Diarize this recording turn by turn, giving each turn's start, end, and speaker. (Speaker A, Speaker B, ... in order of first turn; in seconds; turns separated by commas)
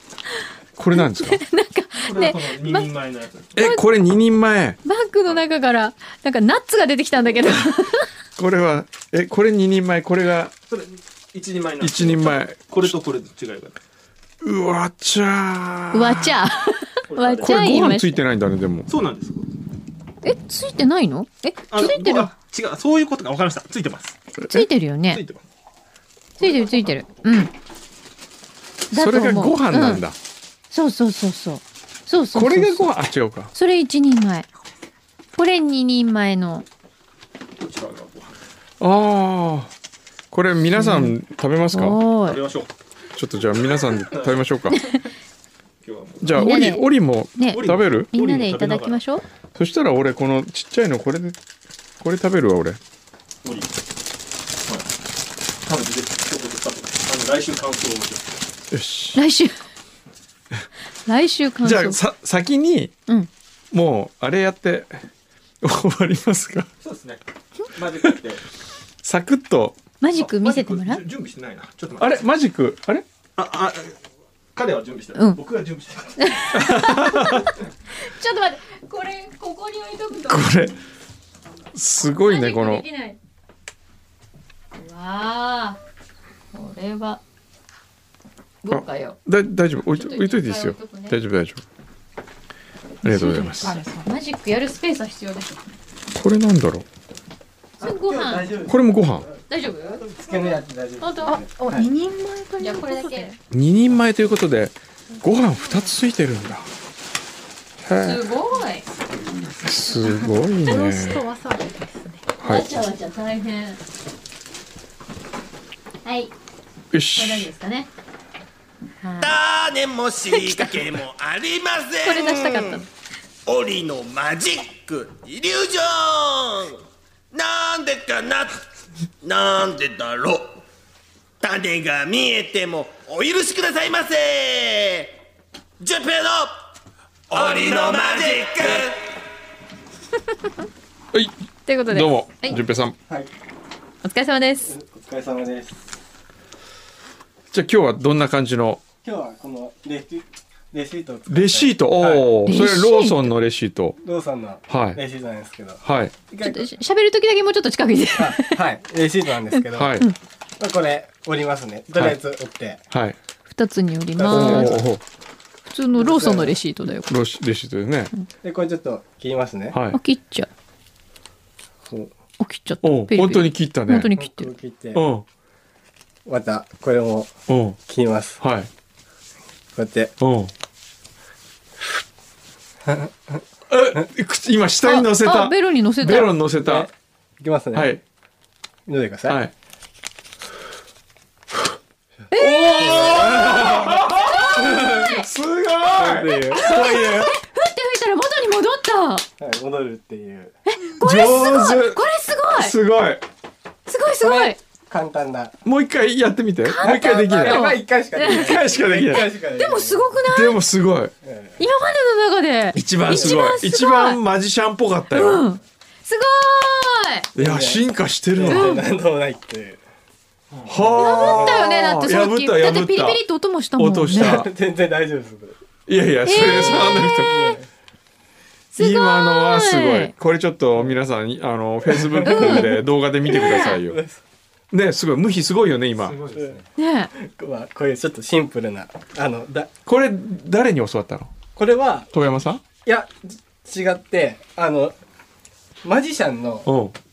Speaker A: 0.8-1.4, Speaker B: 0.9-2.9, Speaker C: 2.0-3.6, Speaker A: 3.5-4.8, Speaker B: 3.6-3.8, Speaker B: 4.8-8.1, Speaker A: 8.4-10.5, Speaker C: 10.7-13.8, Speaker A: 11.8-12.9, Speaker A: 14.4-16.4, Speaker B: 15.9-18.2, Speaker C: 17.1-17.6, Speaker A: 17.4-18.9, Speaker C: 18.9-19.5, Speaker B: 20.2-22.3, Speaker C: 21.7-24.2, Speaker A: 24.4-24.7, Speaker B: 24.5-25.2, Speaker C: 25.1-25.4, Speaker C: 26.4-27.0, Speaker B: 26.4-27.5, Speaker A: 28.9-30.1, Speaker B: 28.9-30.0, Speaker B: 30.7-32.9, Speaker A: 32.3-33.5, Speaker B: 33.5-34.5, Speaker B: 35.4-36.6, Speaker C: 37.6-38.4, Speaker A: 38.8-39.7, Speaker A: 40.3-42.0, Speaker B: 40.7-41.1, Speaker B: 41.7-42.4, Speaker C: 42.2-42.7, Speaker A: 43.1-44.8, Speaker C: 44.0-44.5, Speaker B: 44.7-45.0, Speaker C: 45.8-46.5, Speaker A: 46.2-48.1, Speaker B: 46.3-49.2, Speaker C: 47.5-49.0, Speaker A: 49.5-51.4, Speaker A: 52.0-52.8, Speaker C: 53.4-53.7, Speaker C: 55.6-58.4, Speaker A: 58.7-59.2, Speaker B: 59.1-59.6, Speaker B: 61.0-62.0, Speaker A: 61.6-62.9, Speaker A: 63.7-65.0, Speaker A: 65.6-66.7, Speaker C: 66.8-68.4, Speaker A: 69.0-69.8, Speaker B: 70.0-71.0, Speaker C: 70.1-72.2, Speaker A: 72.0-73.0, Speaker C: 73.4-74.0, Speaker C: 74.5-76.5, Speaker B: 76.2-80.5, Speaker A: 76.5-77.5, Speaker A: 80.3-80.8, Speaker A: 81.7-82.8, Speaker B: 82.2-83.2, Speaker B: 84.8-85.8, Speaker B: 86.5-87.2, Speaker B: 88.6-89.2, Speaker A: 88.7-91.6, Speaker B: 89.8-91.2, Speaker A: 93.0-93.8, Speaker D: 93.0-94.1, Speaker B: 93.1-95.6, Speaker A: 96.1-96.8, Speaker B: 97.8-98.7, Speaker E: 97.8-99.3, Speaker A: 98.7-99.3, Speaker B: 99.5-101.4, Speaker E: 100.0-101.9, Speaker D: 101.2-103.4, Speaker B: 102.6-103.3, Speaker A: 103.5-106.7, Speaker A: 107.8-108.2, Speaker B: 107.9-108.8, Speaker A: 109.6-111.2, Speaker D: 110.6-112.3, Speaker A: 112.4-112.7, Speaker B: 112.4-113.8, Speaker B: 116.0-116.3, Speaker A: 116.9-117.5, Speaker B: 117.1-117.9, Speaker B: 119.0-119.3, Speaker F: 119.2-122.8, Speaker B: 120.3-121.0, Speaker B: 122.0-122.9, Speaker F: 123.5-128.6, Speaker F: 129.2-130.6, Speaker F: 131.4-135.2, Speaker F: 135.8-136.6, Speaker F: 137.3-139.1, Speaker B: 141.7-142.6, Speaker A: 141.9-142.9, Speaker B: 144.0-144.7, Speaker E: 144.7-145.8, Speaker A: 147.5-148.8, Speaker E: 149.0-152.3, Speaker A: 151.3-154.0, Speaker B: 152.4-153.3, Speaker E: 154.0-156.7, Speaker A: 154.7-155.0, Speaker A: 155.8-156.1, Speaker B: 156.4-158.6, Speaker E: 158.2-160.0, Speaker A: 159.7-160.1, Speaker E: 160.6-162.8, Speaker A: 162.9-163.2, Speaker B: 163.5-164.8, Speaker E: 164.2-164.9, Speaker A: 164.3-165.0, Speaker B: 165.7-167.1, Speaker E: 165.9-166.6, Speaker A: 167.1-168.1, Speaker E: 168.4-169.8, Speaker A: 169.7-170.0, Speaker B: 169.9-170.5, Speaker E: 171.9-172.1, Speaker B: 172.4-174.5, Speaker A: 172.8-174.1, Speaker E: 174.2-175.0, Speaker A: 174.9-175.2, Speaker E: 176.2-177.3, Speaker A: 177.5-177.8, Speaker E: 177.8-178.4, Speaker A: 178.4-178.7, Speaker E: 179.7-180.1, Speaker A: 180.2-180.5, Speaker E: 182.9-183.1, Speaker A: 183.7-186.9, Speaker B: 184.8-186.3, Speaker E: 186.6-187.9, Speaker A: 187.7-188.0, Speaker E: 188.9-189.4, Speaker B: 192.3-195.3, Speaker A: 192.3-197.3, Speaker E: 192.8-194.0, Speaker E: 195.9-197.3, Speaker B: 196.5-199.2, Speaker E: 199.4-200.6, Speaker B: 200.7-202.7, Speaker A: 201.0-202.0, Speaker A: 202.5-203.2, Speaker B: 203.9-204.6, Speaker E: 204.2-205.6, Speaker A: 205.6-207.7, Speaker B: 206.6-208.7, Speaker E: 206.8-210.1, Speaker A: 208.2-209.3, Speaker B: 209.6-210.6, Speaker A: 210.3-211.1, Speaker E: 211.2-211.6, Speaker B: 211.6-214.2, Speaker A: 212.7-215.4, Speaker B: 215.1-217.3, Speaker E: 217.3-219.8, Speaker A: 217.3-218.8, Speaker B: 218.5-218.8, Speaker E: 220.6-221.6, Speaker A: 220.7-223.2, Speaker B: 221.0-224.4, Speaker A: 223.8-224.5, Speaker E: 224.1-225.6, Speaker A: 225.9-227.3, Speaker B: 226.2-227.6, Speaker E: 226.3-227.7, Speaker B: 228.7-230.1, Speaker A: 228.8-234.0, Speaker E: 231.9-232.7, Speaker B: 232.2-233.8, Speaker E: 233.3-234.2, Speaker A: 234.7-236.2, Speaker E: 236.3-239.7, Speaker B: 236.8-237.1, Speaker A: 239.8-241.3, Speaker E: 241.6-242.1, Speaker A: 242.1-242.6, Speaker E: 242.8-244.9, Speaker E: 245.8-246.7, Speaker A: 246.6-246.9